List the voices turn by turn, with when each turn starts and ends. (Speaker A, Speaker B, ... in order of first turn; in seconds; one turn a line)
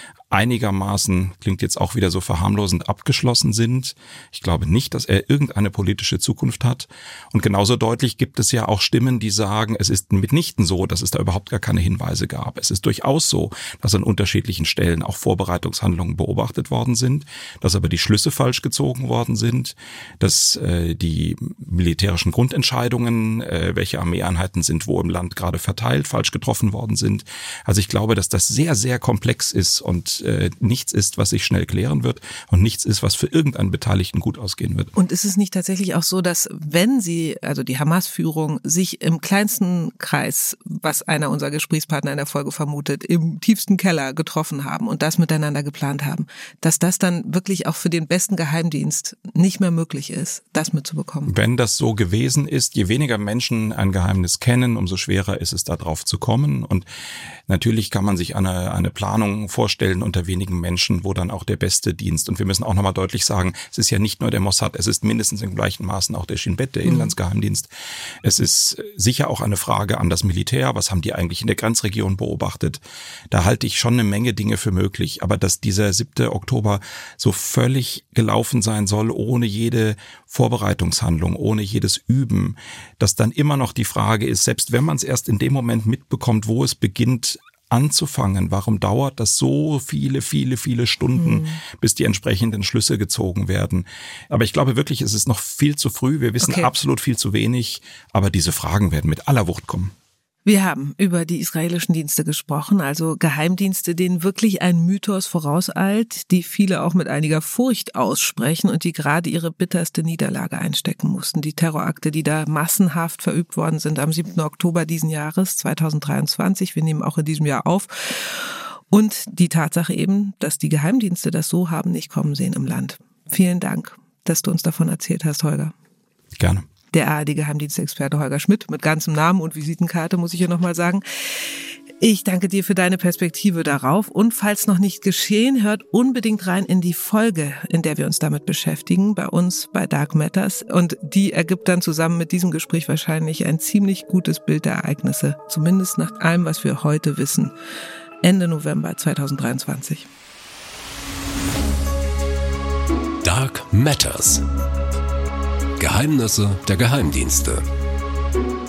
Speaker A: 0.3-34.9
Speaker B: 35.0-51.3
Speaker A: 51.3-56.9
Speaker A: 57.5-67.7
Speaker B: 66.8-67.1
Speaker A: 68.2-99.9
Speaker B: 91.2-91.6
Speaker B: 96.4-96.7
Speaker B: 100.5-125.7
Speaker A: 126.4-126.7
Speaker B: 126.9-131.0
Speaker B: 132.0-147.5
Speaker B: 148.2-150.1
Speaker C: 153.2-154.4
Speaker C: 155.8-157.7